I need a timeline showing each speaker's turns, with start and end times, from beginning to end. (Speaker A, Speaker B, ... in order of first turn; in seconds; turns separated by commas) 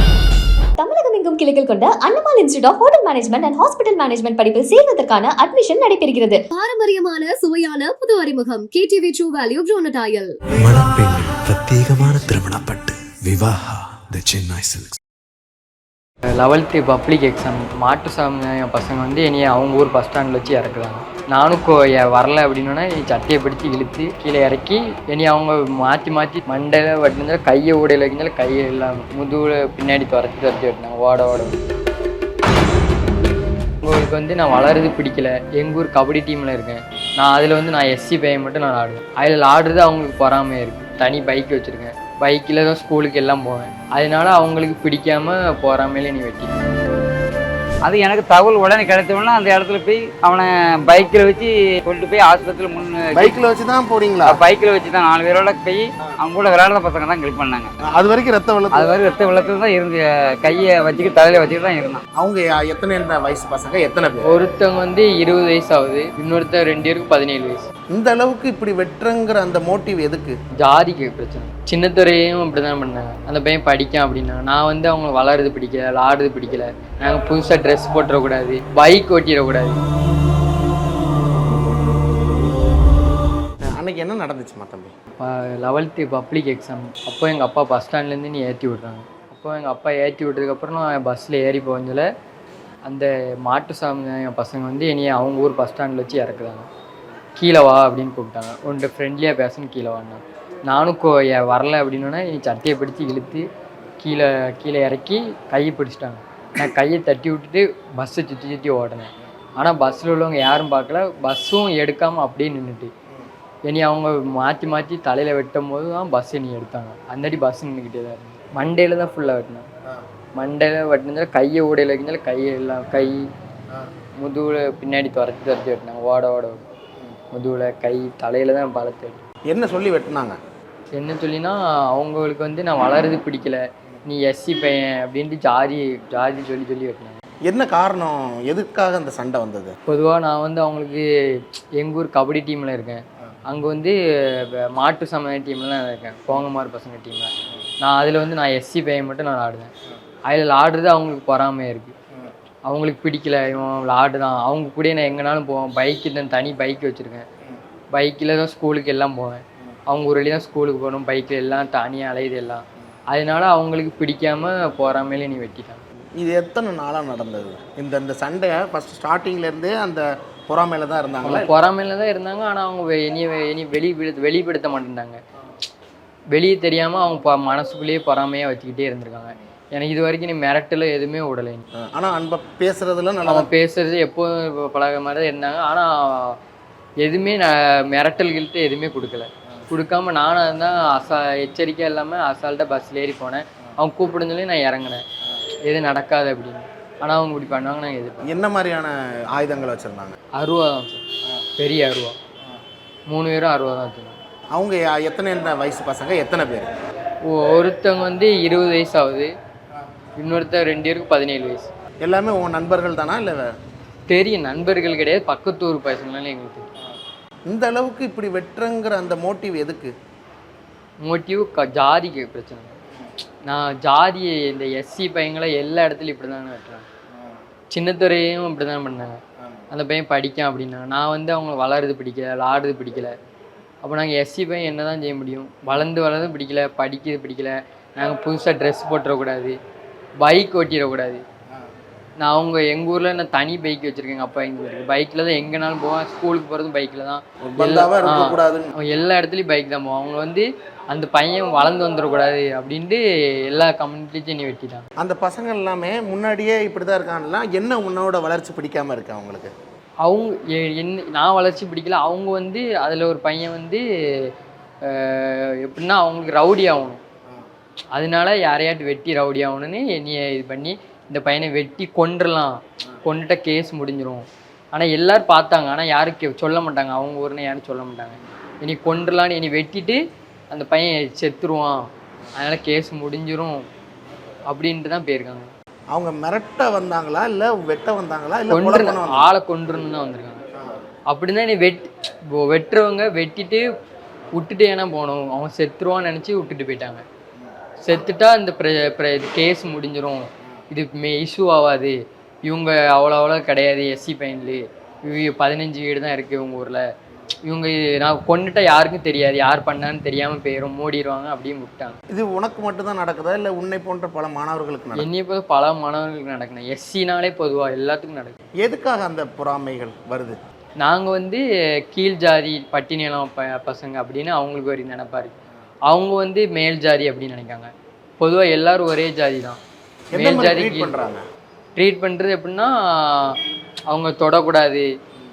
Speaker A: 0.8-6.5, Speaker B: 6.5-10.4, Speaker C: 10.6-15.0, Speaker D: 16.4-31.5, Speaker D: 33.8-46.5, Speaker E: 47.9-53.3, Speaker F: 53.1-54.4, Speaker E: 54.3-57.7, Speaker F: 57.9-58.9, Speaker E: 58.7-62.0, Speaker F: 62.2-64.3, Speaker D: 64.3-67.7, Speaker F: 67.9-70.3, Speaker D: 70.6-79.8, Speaker F: 83.7-84.9, Speaker D: 85.2-92.1, Speaker D: 92.9-96.7, Speaker D: 97.4-103.4, Speaker D: 104.0-112.9, Speaker D: 113.7-119.7, Speaker D: 120.4-123.2, Speaker D: 124.2-126.6, Speaker D: 127.3-129.2, Speaker F: 129.5-130.4, Speaker D: 130.9-137.2, Speaker F: 137.5-139.7, Speaker D: 139.9-141.0, Speaker D: 141.8-147.3, Speaker D: 147.8-149.7, Speaker D: 150.3-151.9, Speaker D: 152.7-157.3, Speaker D: 157.9-165.8, Speaker F: 166.2-171.5, Speaker D: 171.2-175.2, Speaker D: 176.3-181.7, Speaker F: 181.8-183.5, Speaker D: 183.3-186.4, Speaker D: 187.0-195.0, Speaker D: 195.7-198.3, Speaker F: 198.3-200.2, Speaker D: 200.4-201.0, Speaker D: 201.6-202.2, Speaker D: 203.1-204.2, Speaker F: 204.5-206.7, Speaker D: 207.3-209.3, Speaker D: 210.2-211.7, Speaker F: 212.0-213.5, Speaker D: 214.1-216.7, Speaker F: 217.5-219.9, Speaker D: 221.0-222.8, Speaker D: 223.5-226.9, Speaker D: 227.7-229.2, Speaker D: 229.7-233.1, Speaker D: 233.8-239.6, Speaker D: 240.2-241.2, Speaker D: 242.2-254.8, Speaker F: 247.5-248.7, Speaker F: 255.0-259.5, Speaker D: 260.1-264.3, Speaker D: 264.8-267.0, Speaker D: 267.9-280.0, Speaker D: 280.5-281.8, Speaker D: 282.4-283.6, Speaker D: 284.5-285.5, Speaker F: 285.9-289.3, Speaker D: 288.5-290.4, Speaker D: 291.1-293.6, Speaker D: 294.3-297.1, Speaker D: 297.8-306.8, Speaker D: 307.5-312.0, Speaker F: 312.1-315.1, Speaker D: 315.0-318.4, Speaker F: 318.6-320.4, Speaker D: 320.8-325.4, Speaker D: 325.9-329.6, Speaker F: 330.1-331.2, Speaker D: 330.1-330.9, Speaker D: 331.8-333.4, Speaker D: 333.9-334.9